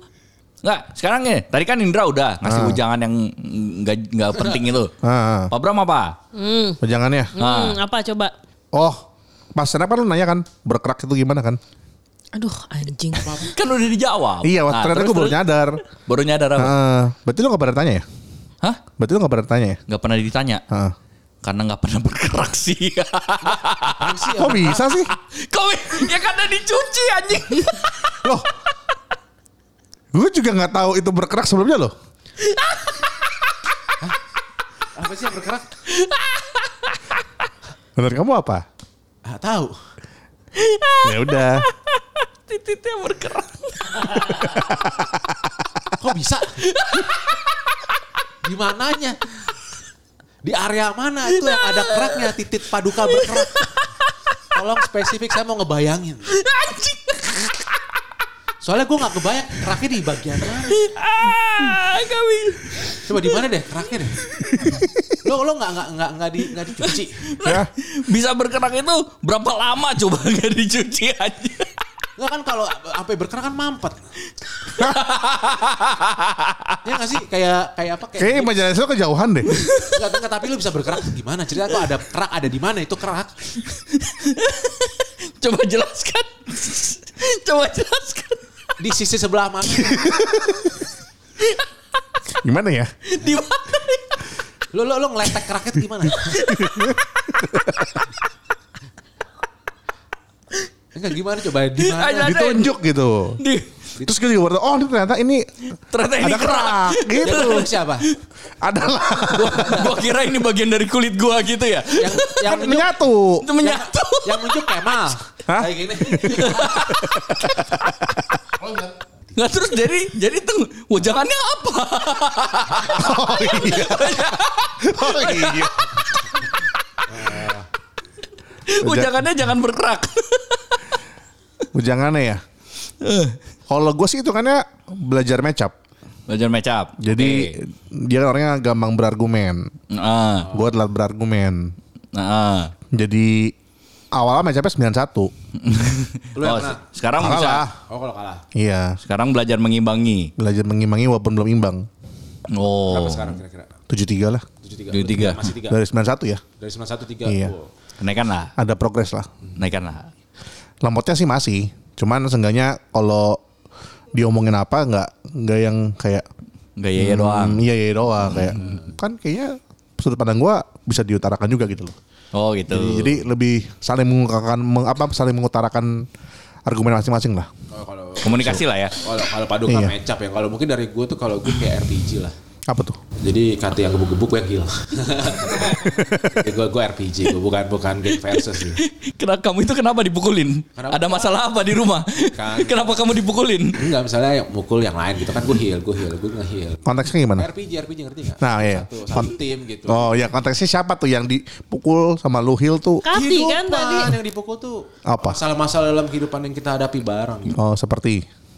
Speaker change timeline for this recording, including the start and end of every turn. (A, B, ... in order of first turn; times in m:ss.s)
0:00.6-0:04.9 A
0:02.4-0:02.8 B
0:04.3-0:04.7 C
0:05.0-0:05.5 B
0:05.5-0:06.2 A
0:06.3-0:06.8 D
0:06.8-0:07.3 B
0:07.4-0:08.3 D
0:07.4-0:07.8 A
0:08.7-0:09.0 B
0:09.6-0:11.6 B
0:12.4-0:13.4 D
0:13.1-0:13.6 C
0:13.4-0:16.8 A
0:14.4-0:15.8 B
0:16.6-0:18.0 B
0:19.0-0:19.8 B
0:19.9-0:20.6 A
0:21.4-0:24.3 A
0:23.4-0:24.9 C
0:24.4-0:25.1 B
0:25.1-0:28.2 A
0:30.1-0:31.9 B
0:35.0-0:35.7 C
0:36.0-0:36.4 A
0:38.0-0:38.6 B
0:39.2-0:39.8 C
0:41.0-0:41.6 B
0:42.5-0:44.7 A
0:43.1-0:44.5 D
0:44.4-0:45.6 B
0:46.0-0:46.6 C
0:46.6-0:47.4 A
0:48.4-0:49.2 C
0:50.4-0:53.7 C
0:51.4-0:52.3 A
0:53.0-0:54.1 A
0:54.5-0:56.4 C
0:56.3-0:57.7 A
0:58.6-1:00.8 C
1:00.7-1:02.9 A
1:03.0-1:04.2 C
1:04.3-1:04.8 A
1:05.2-1:07.3 C
1:06.8-1:11.7 A
1:07.4-1:07.7 B
1:12.2-1:14.0 C
1:14.7-1:16.8 A
1:16.8-1:18.6 C
1:18.2-1:19.5 B
1:19.5-1:20.0 A
1:19.8-1:23.3 C
1:23.9-1:28.4 A
1:28.8-1:30.1 C
1:29.8-1:30.6 B
1:32.4-1:32.9 B
1:33.1-1:34.3 A
1:34.7-1:36.4 C
1:36.1-1:37.0 A
1:36.5-1:38.0 B
1:40.9-1:42.4 C
1:41.8-1:42.7 A
1:42.2-1:43.4 B
1:43.4-1:43.7 A
1:44.0-1:45.5 B
1:45.9-1:48.0 A
1:46.1-1:47.7 B
1:47.2-1:48.1 C
1:48.6-1:50.0 B
1:49.2-1:52.7 A
1:51.9-1:52.9 C
1:52.4-1:53.5 B
1:53.4-1:55.0 A
1:53.6-1:56.7 C
1:55.5-1:58.9 B
1:56.1-1:57.9 A
1:59.4-2:05.8 A
2:02.8-2:05.9 B
2:07.1-2:07.7 C
2:08.7-2:10.8 A
2:08.8-2:09.3 B
2:11.8-2:12.4 B
2:13.0-2:13.4 A
2:13.7-2:15.7 B
2:16.3-2:17.6 A
2:17.0-2:19.7 B
2:19.9-2:20.5 A
2:20.5-2:20.8 C
2:20.5-2:21.7 B
2:22.2-2:22.7 A
2:22.9-2:23.5 B
2:24.2-2:25.3 B
2:25.6-2:27.6 A
2:26.4-2:26.8 C
2:27.2-2:27.8 B
2:27.8-2:28.4 C
2:28.6-2:29.0 B
2:29.0-2:30.3 A
2:30.4-2:31.9 B
2:32.5-2:33.4 A
2:32.9-2:33.8 C
2:33.9-2:34.5 B
2:34.6-2:35.8 C
2:34.9-2:35.5 A
2:35.6-2:36.4 B
2:36.5-2:37.7 C
2:37.2-2:37.5 B
2:38.0-2:38.5 A
2:38.6-2:39.3 B
2:39.6-2:40.1 A
2:40.8-2:43.4 B
2:44.1-2:46.3 B
2:46.8-2:47.6 A
2:47.0-2:52.0 B
2:48.2-2:48.6 A
2:48.6-2:48.9 C
2:52.3-2:53.2 A
2:52.7-2:56.1 B
2:56.7-2:57.5 B
2:57.7-3:02.4 C
2:58.2-2:59.0 A
2:59.7-3:00.0 B
3:02.7-3:03.0 B
3:03.2-3:08.8 C
3:05.8-3:06.4 B
3:08.1-3:13.9 A
3:10.8-3:11.4 C
3:12.4-3:13.0 C
3:13.7-3:16.8 C
3:16.9-3:17.5 B
3:17.4-3:20.3 C
3:18.4-3:19.4 B
3:19.9-3:23.1 B
3:23.0-3:24.2 D
3:23.1-3:27.6 C
3:25.1-3:25.4 B
3:27.5-3:28.2 B